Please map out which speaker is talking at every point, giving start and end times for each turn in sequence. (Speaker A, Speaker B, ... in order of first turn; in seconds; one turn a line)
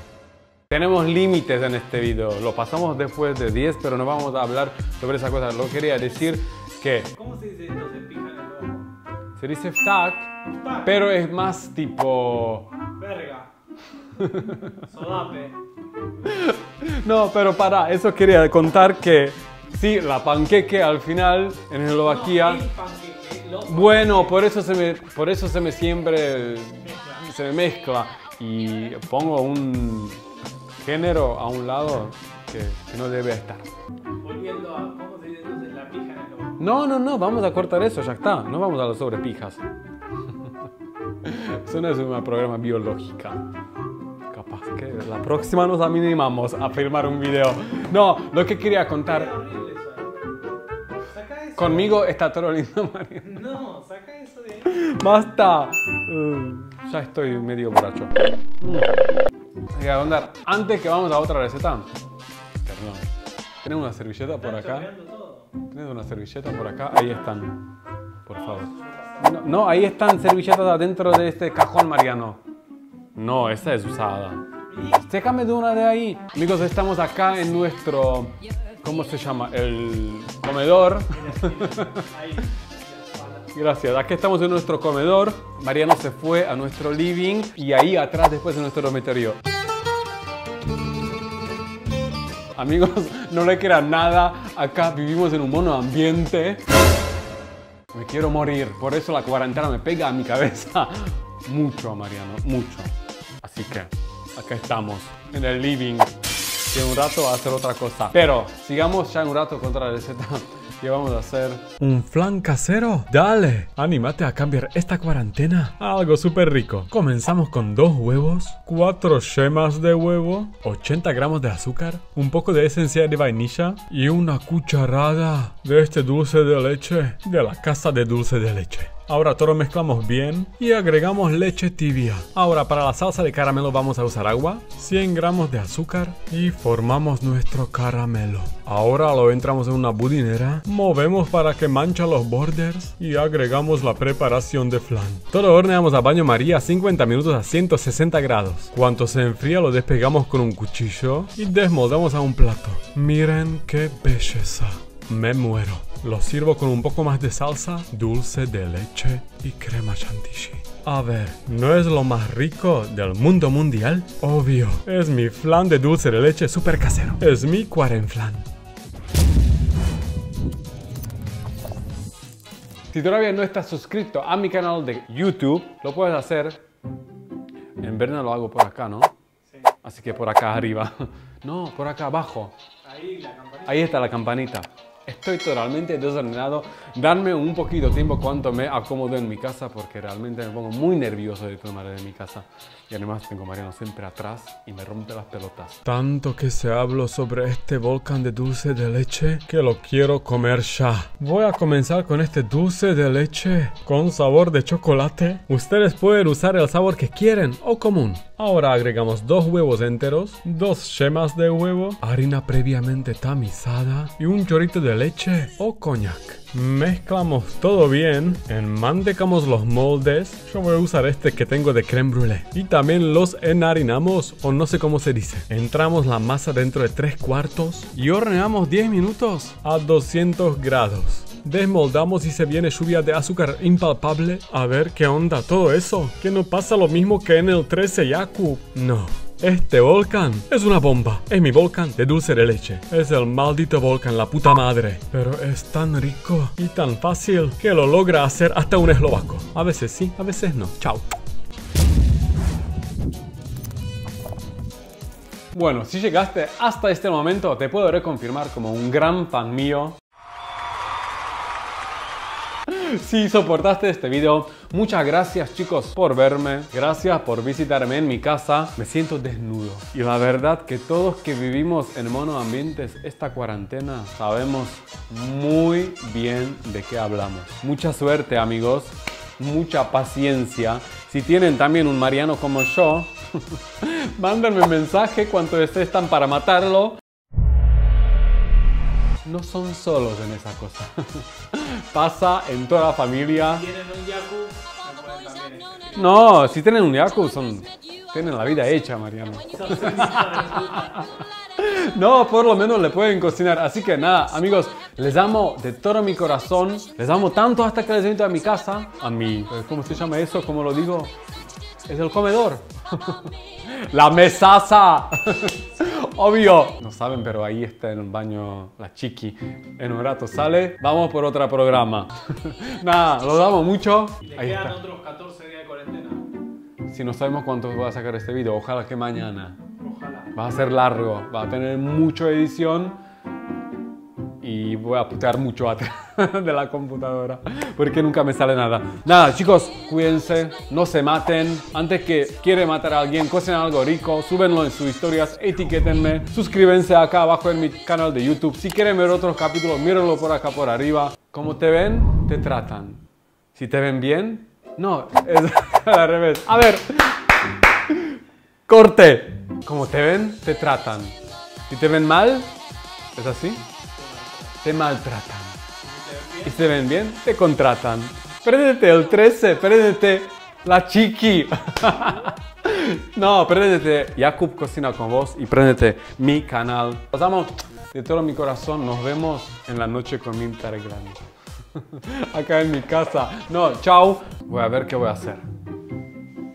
Speaker A: 0.7-7.2
Speaker B: 7.2-8.9
Speaker A: 9.3-12.7
Speaker B: 10.6-11.0
Speaker B: 12.9-13.5
Speaker A: 14.1-14.8
Speaker B: 14.4-15.6
Speaker A: 16.2-22.6
Speaker B: 22.0-24.4
Speaker A: 23.7-30.2
Speaker B: 26.8-27.2
Speaker A: 30.8-33.7
Speaker B: 34.2-36.6
Speaker A: 36.6-39.7
Speaker A: 41.2-43.5
Speaker A: 44.3-49.3
Speaker B: 49.0-50.3
Speaker B: 51.0-52.0
Speaker A: 51.5-53.5
Speaker B: 53.2-54.9
Speaker A: 54.6-58.9
Speaker A: 59.7-61.9
Speaker A: 62.6-64.9
Speaker B: 64.4-65.5
Speaker A: 65.6-67.6
Speaker A: 68.2-72.4
Speaker B: 68.3-69.3
Speaker A: 73.1-74.4
Speaker B: 74.7-75.1
Speaker A: 74.9-82.1
Speaker B: 81.1-83.5
Speaker A: 83.5-89.4
Speaker A: 92.5-96.6
Speaker A: 97.9-106.2
Speaker A: 106.7-168.4
Speaker A: 172.9-176.6
Speaker A: 177.8-179.1
Speaker B: 179.5-179.7
Speaker A: 179.8-182.6
Speaker B: 182.8-184.0
Speaker A: 183.7-251.1
Speaker A: 255.5-260.0
Speaker A: 262.7-287.0
Speaker A: 289.2-293.7
Speaker B: 293.3-296.1
Speaker A: 295.9-311.1
Speaker B: 299.5-301.1
Speaker A: 311.8-324.8
Speaker B: 324.2-326.3
Speaker A: 326.9-329.6
Speaker B: 329.8-330.3
Speaker A: 330.3-333.0
Speaker A: 334.4-353.0
Speaker A: 353.5-357.3
Speaker A: 357.9-362.5
Speaker A: 363.1-363.7
Speaker B: 363.9-364.5
Speaker A: 364.6-365.6
Speaker B: 365.8-366.7
Speaker A: 366.4-385.5